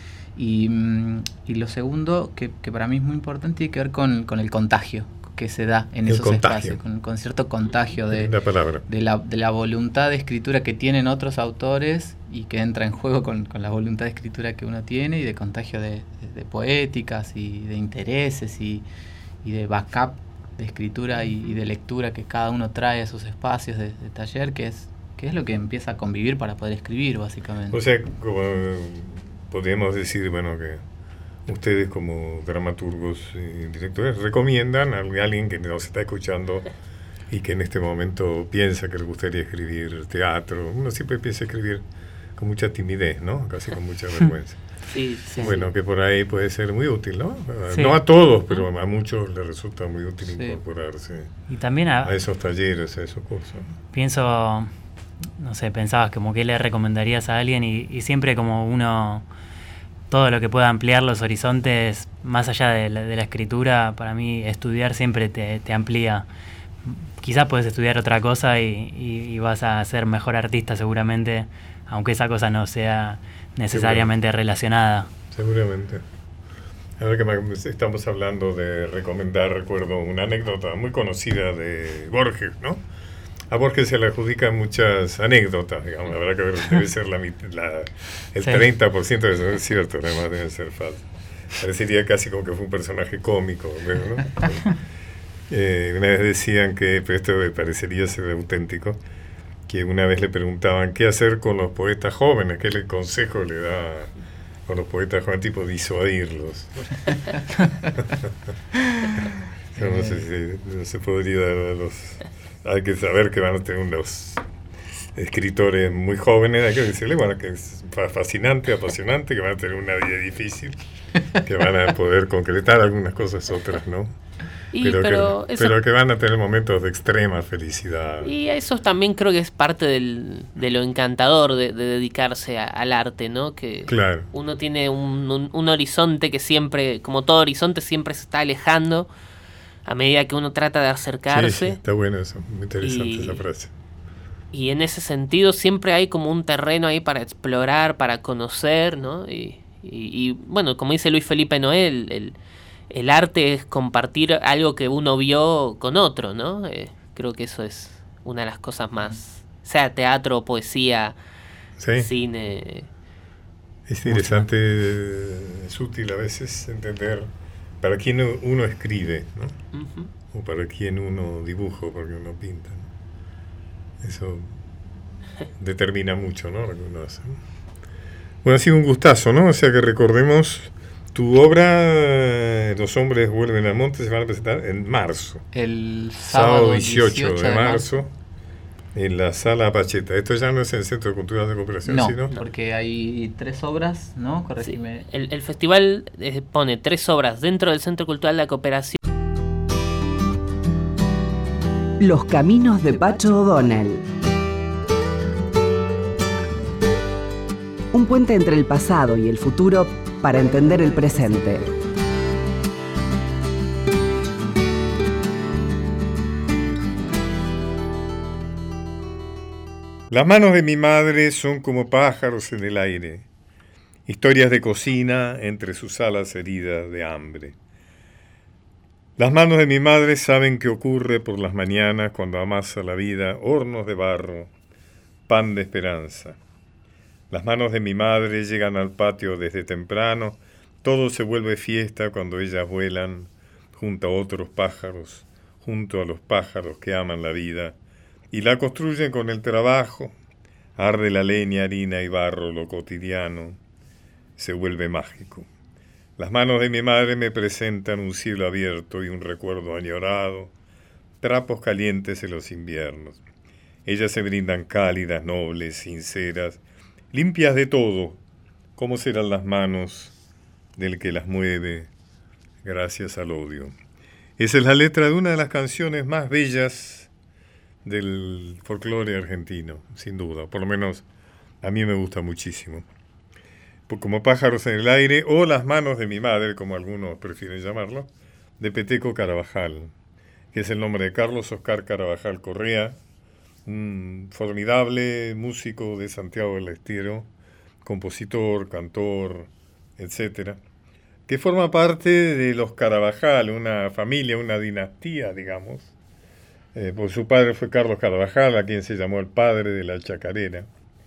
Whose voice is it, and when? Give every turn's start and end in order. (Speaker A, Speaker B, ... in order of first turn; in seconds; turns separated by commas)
Speaker A: 0.4-8.3, Speaker B: 6.0-6.8, Speaker B: 8.1-8.8, Speaker A: 8.9-18.8, Speaker A: 19.4-27.8, Speaker B: 27.7-30.8, Speaker B: 31.4-36.7, Speaker B: 37.3-41.8, Speaker B: 42.4-44.6, Speaker C: 44.9-45.7, Speaker B: 45.3-51.3, Speaker D: 47.7-48.0, Speaker A: 50.3-50.6, Speaker D: 51.5-52.1, Speaker B: 52.0-53.8, Speaker D: 53.9-54.7, Speaker D: 55.4-59.2, Speaker D: 60.1-66.2, Speaker D: 66.8-75.1, Speaker B: 73.7-74.1, Speaker B: 75.3-76.0, Speaker B: 77.0-82.8, Speaker B: 83.5-94.8, Speaker B: 95.5-99.0, Speaker B: 99.7-104.1, Speaker B: 104.7-107.1, Speaker B: 109.7-114.4, Speaker A: 109.8-110.2, Speaker B: 115.1-120.8, Speaker B: 121.3-124.2, Speaker C: 124.7-125.8, Speaker B: 124.7-128.3, Speaker C: 128.2-139.1, Speaker B: 133.9-134.3, Speaker C: 139.8-141.8, Speaker B: 141.3-143.7, Speaker C: 142.8-143.4, Speaker C: 144.5-152.4, Speaker C: 152.9-161.2, Speaker B: 161.8-162.1, Speaker C: 162.0-162.9, Speaker B: 163.9-169.6, Speaker C: 164.1-164.4, Speaker C: 169.7-170.1, Speaker B: 170.3-172.9, Speaker B: 174.0-174.5, Speaker B: 175.6-177.4, Speaker B: 178.4-185.4, Speaker A: 185.5-187.9, Speaker B: 186.3-188.1, Speaker B: 188.9-192.3, Speaker A: 191.8-195.0, Speaker C: 194.6-199.0, Speaker E: 202.0-204.0, Speaker E: 207.9-211.7, Speaker B: 220.1-223.3, Speaker B: 224.1-227.6, Speaker B: 229.2-234.5, Speaker B: 235.3-236.4, Speaker B: 237.3-247.8, Speaker B: 248.3-250.2, Speaker B: 250.8-253.6, Speaker B: 254.4-255.5, Speaker B: 256.2-260.5, Speaker B: 261.2-263.2, Speaker B: 263.8-268.2, Speaker B: 268.8-270.1, Speaker B: 270.8-271.9, Speaker B: 272.6-273.7, Speaker B: 274.4-277.1, Speaker B: 277.8-281.1, Speaker B: 281.6-282.9, Speaker B: 283.9-289.9, Speaker B: 290.5-293.0, Speaker B: 293.6-297.3, Speaker B: 297.8-300.6, Speaker B: 301.3-305.9, Speaker B: 306.7-310.7